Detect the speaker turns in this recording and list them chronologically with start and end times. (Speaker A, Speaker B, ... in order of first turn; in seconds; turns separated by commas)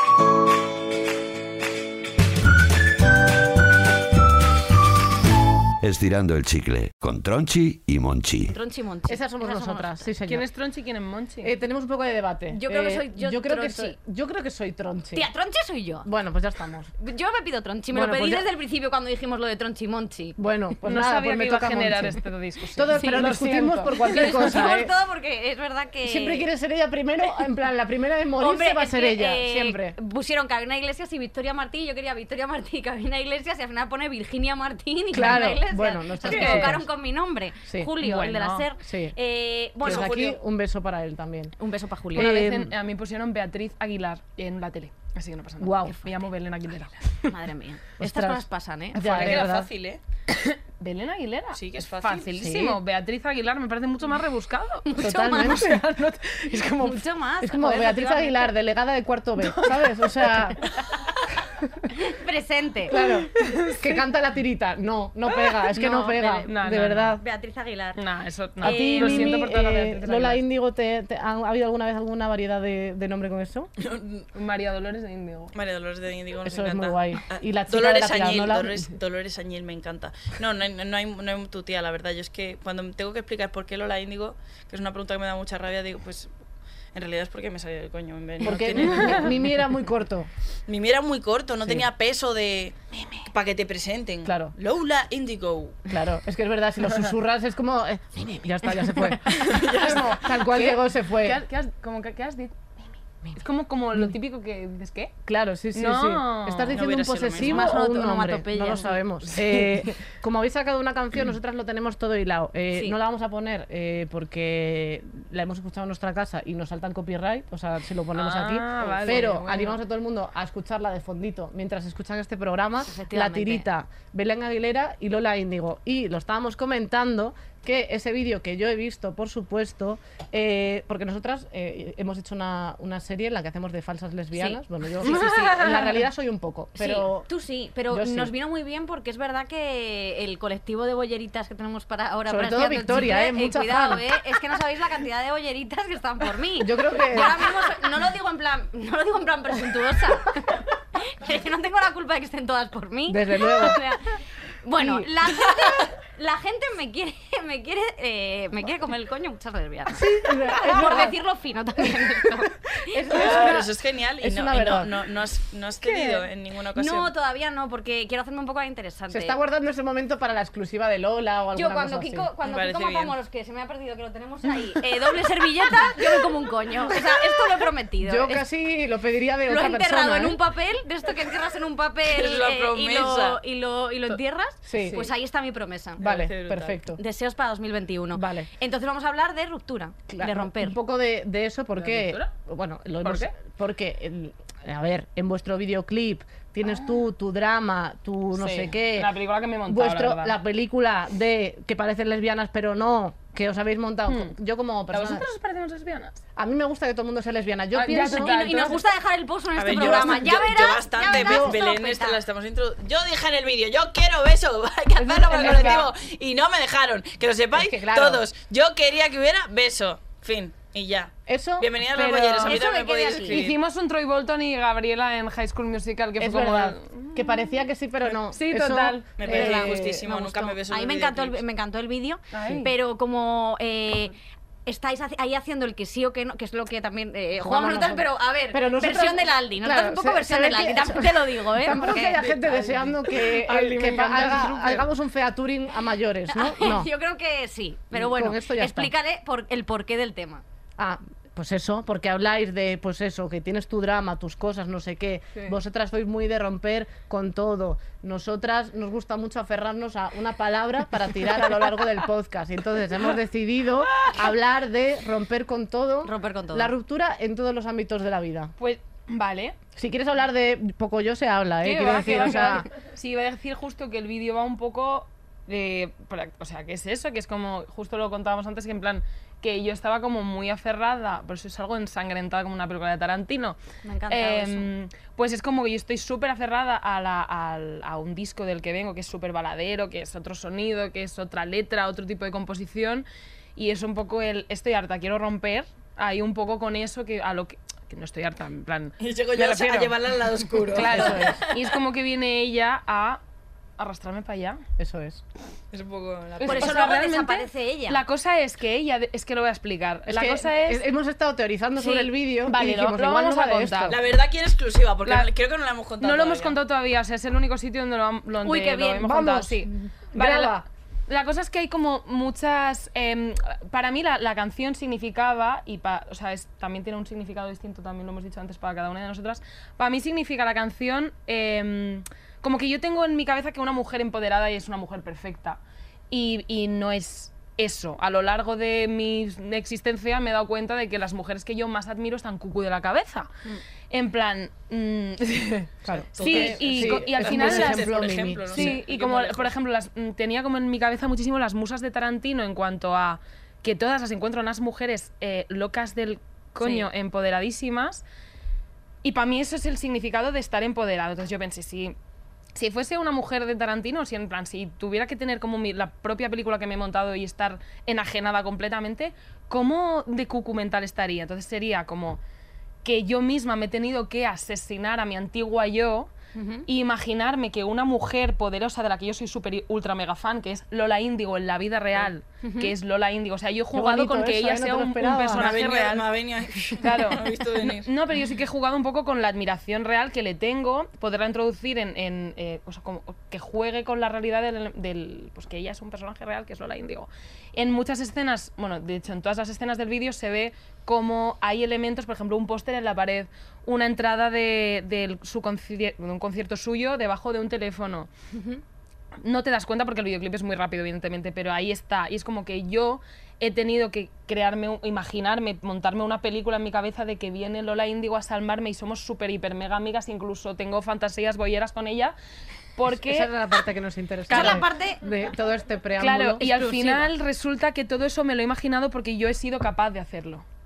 Speaker A: 5.8-8.5, Speaker B: 8.5-10.1, Speaker C: 9.1-10.5, Speaker D: 10.3-11.5, Speaker C: 11.4-15.2, Speaker B: 12.5-14.0, Speaker B: 15.1-16.1, Speaker C: 16.0-16.9, Speaker B: 17.0-20.4, Speaker C: 17.9-18.4, Speaker C: 20.4-22.2, Speaker D: 20.8-24.6, Speaker C: 22.7-24.9, Speaker B: 22.9-23.2, Speaker B: 23.9-26.4, Speaker C: 26.0-30.0, Speaker B: 28.4-40.1, Speaker C: 35.1-36.9, Speaker D: 36.2-36.8, Speaker C: 37.7-37.9, Speaker D: 38.0-38.6, Speaker C: 38.8-39.1, Speaker C: 39.8-41.5, Speaker E: 39.8-40.4, Speaker B: 41.6-42.3, Speaker C: 42.1-42.7, Speaker D: 42.1-47.1, Speaker C: 45.6-46.0, Speaker B: 47.3-49.0, Speaker C: 48.0-49.7, Speaker D: 48.9-49.6, Speaker E: 49.0-50.0, Speaker D: 50.3-57.0, Speaker E: 51.5-52.4, Speaker C: 52.4-52.8, Speaker B: 54.9-55.6, Speaker C: 55.0-55.9, Speaker B: 56.8-58.5, Speaker C: 57.4-60.6, Speaker D: 59.4-60.5, Speaker B: 61.9-63.0, Speaker C: 62.9-67.2, Speaker D: 63.0-64.0, Speaker B: 65.7-66.5, Speaker D: 66.5-67.2, Speaker B: 67.2-68.0, Speaker D: 68.0-70.4, Speaker B: 68.6-69.4, Speaker C: 68.6-73.7, Speaker E: 73.8-74.3, Speaker D: 74.3-75.5, Speaker E: 75.5-86.3, Speaker C: 76.4-78.9, Speaker E: 86.9-89.4, Speaker C: 88.4-90.3, Speaker D: 88.9-89.2, Speaker E: 90.7-95.9, Speaker D: 92.9-93.2, Speaker C: 94.2-94.5, Speaker C: 95.9-101.4, Speaker D: 99.2-105.1, Speaker E: 99.4-100.1, Speaker C: 103.9-104.2, Speaker C: 105.2-137.3, Speaker D: 105.7-106.9, Speaker E: 106.7-107.7, Speaker B: 107.4-109.0, Speaker D: 109.3-109.8, Speaker D: 118.1-119.8, Speaker B: 122.9-123.7, Speaker B: 134.3-134.6, Speaker D: 135.0-135.9, Speaker B: 136.8-154.0, Speaker C: 137.9-138.3, Speaker C: 142.3-144.0, Speaker C: 146.6-147.5, Speaker C: 153.1-153.8, Speaker B: 154.6-163.0, Speaker C: 154.8-155.1, Speaker C: 159.9-161.2, Speaker C: 161.9-162.2, Speaker C: 162.8-164.9, Speaker E: 163.1-167.1, Speaker D: 165.8-166.2, Speaker B: 166.7-169.4, Speaker C: 169.1-172.3, Speaker B: 171.5-178.4, Speaker E: 172.4-173.1, Speaker C: 178.0-180.4, Speaker B: 179.5-186.0, Speaker E: 182.0-183.4, Speaker C: 184.6-185.1, Speaker E: 186.0-186.8, Speaker C: 186.0-187.0, Speaker B: 186.9-190.8, Speaker C: 188.1-188.5, Speaker C: 190.1-199.1, Speaker D: 191.8-192.3, Speaker D: 193.0-193.3, Speaker D: 196.6-196.9, Speaker D: 198.3-200.3, Speaker C: 199.7-205.2, Speaker D: 204.1-204.3, Speaker D: 204.9-206.2, Speaker C: 206.3-208.8, Speaker D: 207.7-208.8, Speaker B: 208.1-212.2, Speaker E: 209.6-223.6, Speaker C: 209.7-210.4, Speaker C: 211.0-211.6, Speaker D: 215.0-215.9, Speaker C: 215.3-215.9, Speaker C: 217.5-218.2, Speaker C: 221.3-221.7, Speaker D: 221.9-222.6, Speaker B: 222.4-223.5, Speaker D: 223.2-229.1, Speaker C: 226.2-230.0, Speaker E: 229.2-231.4, Speaker B: 229.2-234.1, Speaker D: 232.3-232.7, Speaker B: 234.7-242.2, Speaker C: 237.3-246.9, Speaker D: 242.2-242.9, Speaker E: 243.4-244.8, Speaker D: 243.7-244.5, Speaker B: 246.3-250.4, Speaker C: 247.9-248.9, Speaker C: 250.8-268.5, Speaker B: 266.0-266.7, Speaker D: 268.6-269.6, Speaker C: 269.8-272.7, Speaker D: 271.6-283.6, Speaker B: 283.8-284.7, Speaker D: 284.1-299.9, Speaker E: 299.0-301.5, Speaker D: 300.6-303.2, Speaker C: 300.8-301.4, Speaker D: 303.8-304.6, Speaker C: 304.8-305.2, Speaker E: 305.7-307.0, Speaker D: 306.4-310.8, Speaker B: 306.4-308.0, Speaker C: 310.1-314.0, Speaker B: 311.8-312.1, Speaker D: 312.4-314.0, Speaker E: 313.9-316.6, Speaker D: 316.0-343.3, Speaker B: 318.4-319.9, Speaker C: 319.0-320.6, Speaker D: 343.9-347.9, Speaker C: 345.8-348.8, Speaker E: 346.1-349.5, Speaker D: 348.5-358.0, Speaker B: 356.6-356.9, Speaker D: 359.0-361.9, Speaker D: 362.5-372.2, Speaker D: 372.8-376.1, Speaker B: 376.3-376.7, Speaker D: 376.7-386.1, Speaker B: 382.4-382.7, Speaker C: 383.7-385.5, Speaker E: 385.3-387.9, Speaker D: 386.8-408.1, Speaker B: 408.3-408.6, Speaker D: 409.2-422.1, Speaker D: 422.8-423.3, Speaker C: 422.9-427.0, Speaker D: 424.3-424.6, Speaker B: 424.3-425.0, Speaker D: 426.0-430.4